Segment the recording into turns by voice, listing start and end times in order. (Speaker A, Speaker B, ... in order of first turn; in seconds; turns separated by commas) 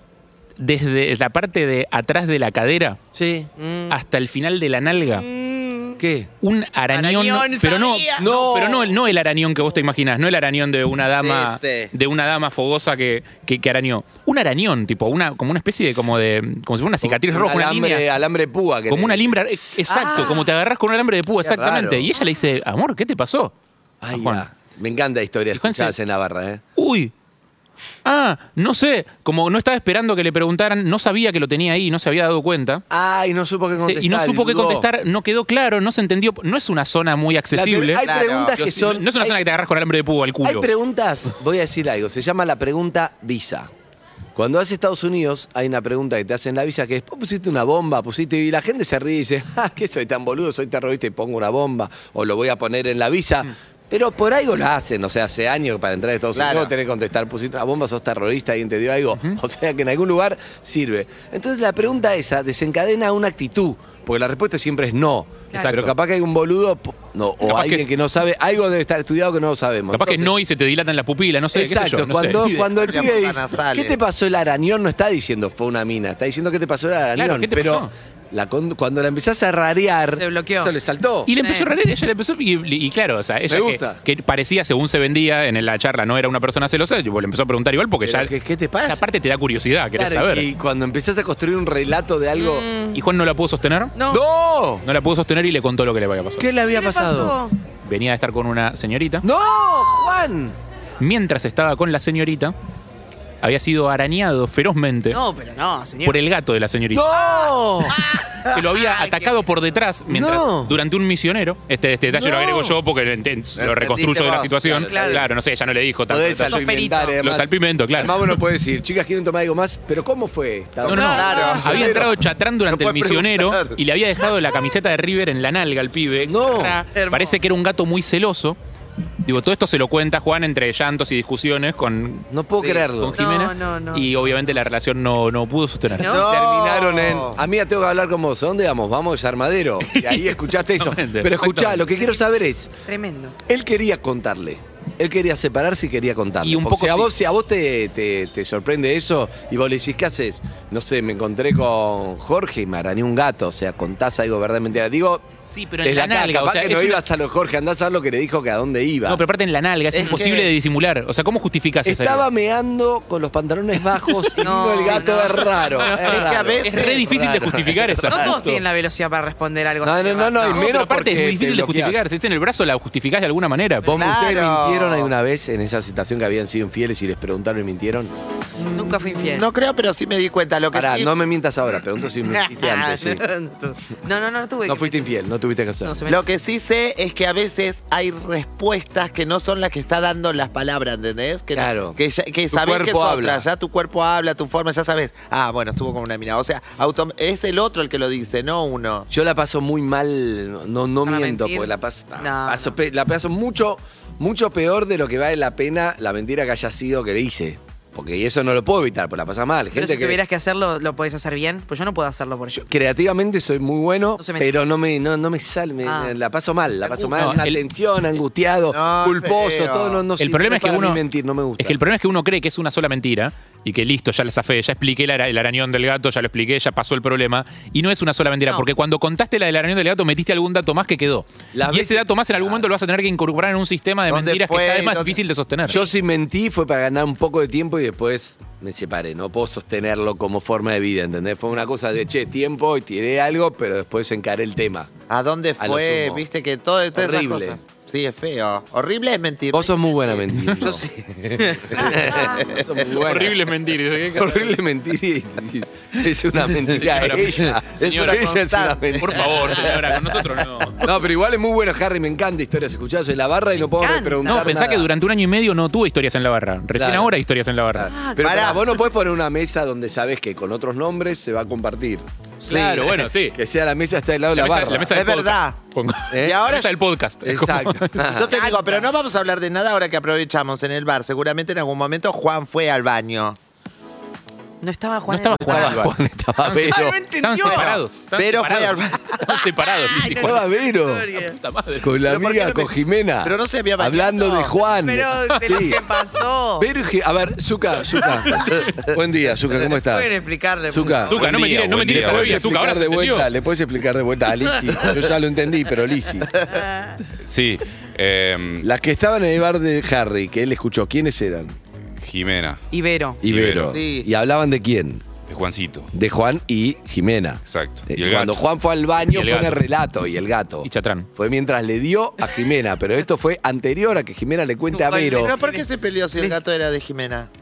Speaker A: 0.6-3.0, Speaker B: 3.1-3.5, Speaker C: 3.6-4.0, Speaker A: 3.9-5.2, Speaker C: 5.1-6.0, Speaker B: 6.0-6.3, Speaker A: 6.4-18.0, Speaker C: 6.9-8.2, Speaker B: 8.2-8.9, Speaker D: 11.2-11.9, Speaker B: 17.0-19.5, Speaker A: 18.9-23.5, Speaker C: 19.9-20.5, Speaker B: 21.4-22.1, Speaker B: 24.0-26.6, Speaker A: 24.1-24.4, Speaker A: 25.5-25.9, Speaker A: 26.8-27.1, Speaker A: 28.0-32.8, Speaker B: 32.9-34.9, Speaker A: 33.8-38.0, Speaker B: 37.5-39.4, Speaker D: 38.0-38.5, Speaker A: 38.5-40.7, Speaker B: 40.4-43.7, Speaker B: 44.3-70.3, Speaker D: 56.3-56.7, Speaker A: 65.5-65.9, Speaker A: 67.4-67.9, Speaker A: 69.9-72.7, Speaker B: 71.5-81.3, Speaker D: 72.8-74.0, Speaker A: 77.2-77.9, Speaker C: 80.1-80.7, Speaker A: 81.3-88.3, Speaker C: 81.3-81.7, Speaker B: 83.5-84.0, Speaker B: 88.0-89.0, Speaker A: 88.8-90.5, Speaker B: 90.0-92.7, Speaker C: 92.3-93.0, Speaker A: 92.9-93.9, Speaker C: 93.9-94.2, Speaker B: 94.1-94.8, Speaker A: 94.8-96.5, Speaker B: 96.4-97.4, Speaker C: 96.7-97.5, Speaker A: 97.8-99.2, Speaker B: 99.2-100.6, Speaker A: 101.0-102.5, Speaker A: 103.4-105.2, Speaker C: 105.1-106.2, Speaker A: 106.0-107.1, Speaker B: 106.9-108.0, Speaker C: 107.1-108.2, Speaker A: 108.5-116.6, Speaker C: 108.8-109.3, Speaker B: 110.1-110.8, Speaker B: 112.2-112.7, Speaker D: 113.6-114.5, Speaker B: 114.6-115.3, Speaker C: 114.8-115.2, Speaker B: 116.1-122.2, Speaker C: 116.5-117.2, Speaker A: 117.2-118.4, Speaker D: 120.8-122.0, Speaker A: 120.9-128.6, Speaker C: 120.9-121.6, Speaker D: 122.7-123.8, Speaker B: 126.2-126.8, Speaker C: 126.9-127.4, Speaker A: 129.2-132.3, Speaker B: 132.3-133.2, Speaker D: 132.6-132.8, Speaker A: 133.0-136.2, Speaker C: 133.1-134.1, Speaker C: 136.0-136.3, Speaker D: 136.0-137.4, Speaker B: 136.0-142.7, Speaker A: 139.9-142.0, Speaker C: 142.8-143.3, Speaker B: 143.4-155.3, Speaker A: 146.4-147.1, Speaker A: 155.5-157.0, Speaker B: 155.8-159.2, Speaker A: 159.1-162.2, Speaker D: 159.9-160.5, Speaker B: 161.8-168.6, Speaker C: 164.4-165.8, Speaker A: 165.9-168.3, Speaker D: 166.0-167.1, Speaker C: 168.1-170.7, Speaker B: 169.8-172.0, Speaker A: 170.5-173.9, Speaker B: 173.8-178.1, Speaker D: 173.9-175.1, Speaker D: 178.6-181.1, Speaker C: 178.7-179.4, Speaker B: 180.7-183.2, Speaker C: 182.3-185.0, Speaker B: 184.7-186.0, Speaker C: 185.8-186.2, Speaker D: 186.1-199.1, Speaker B: 191.5-192.0, Speaker B: 192.5-193.4, Speaker B: 199.1-210.2, Speaker C: 201.0-202.8, Speaker C: 209.7-212.7, Speaker B: 212.6-221.8, Speaker C: 214.2-214.5, Speaker C: 215.8-216.1, Speaker C: 216.8-217.4, Speaker A: 217.2-217.6, Speaker D: 218.7-220.0, Speaker A: 220.2-221.0, Speaker A: 221.6-235.8, Speaker B: 231.5-232.7, Speaker D: 234.1-235.2, Speaker B: 235.6-244.9, Speaker D: 245.1-252.7, Speaker B: 245.6-246.2, Speaker B: 246.9-247.6, Speaker B: 249.5-250.8, Speaker C: 251.4-251.8, Speaker B: 251.4-253.4, Speaker A: 253.0-254.6, Speaker B: 254.1-259.7, Speaker A: 256.8-258.3, Speaker D: 257.8-260.0, Speaker A: 259.0-260.8, Speaker B: 260.8-264.9, Speaker C: 263.8-264.5, Speaker A: 264.2-267.9, Speaker B: 266.8-267.1, Speaker B: 267.7-272.1, Speaker C: 267.9-268.6, Speaker D: 268.2-268.6, Speaker D: 272.4-273.0, Speaker A: 272.4-273.4, Speaker B: 273.3-275.0, Speaker A: 274.3-278.0, Speaker D: 274.9-275.6, Speaker B: 276.1-276.5, Speaker D: 276.2-276.7, Speaker B: 277.2-278.4, Speaker D: 278.1-283.4, Speaker C: 278.3-278.9, Speaker C: 284.6-285.8, Speaker A: 285.1-290.5, Speaker B: 285.4-287.0, Speaker C: 286.6-287.7, Speaker D: 287.4-289.1, Speaker C: 289.8-291.4, Speaker B: 290.1-291.1, Speaker A: 291.1-291.9, Speaker B: 291.8-295.8, Speaker D: 292.0-292.7, Speaker D: 293.2-294.5, Speaker C: 294.8-296.7, Speaker B: 296.6-300.1, Speaker C: 299.6-301.2, Speaker B: 300.7-306.3, Speaker A: 301.1-303.3, Speaker E: 301.7-302.4, Speaker C: 304.5-304.9, Speaker C: 306.5-306.9, Speaker E: 307.2-308.7, Speaker B: 308.6-311.6, Speaker E: 312.0-312.6, Speaker C: 312.7-313.2, Speaker B: 313.2-315.0, Speaker E: 313.2-313.8, Speaker D: 313.7-314.1, Speaker E: 315.2-315.9, Speaker B: 315.9-325.4, Speaker E: 317.4-318.4, Speaker A: 319.1-319.6, Speaker A: 320.6-321.1, Speaker C: 324.7-325.6, Speaker D: 325.1-327.3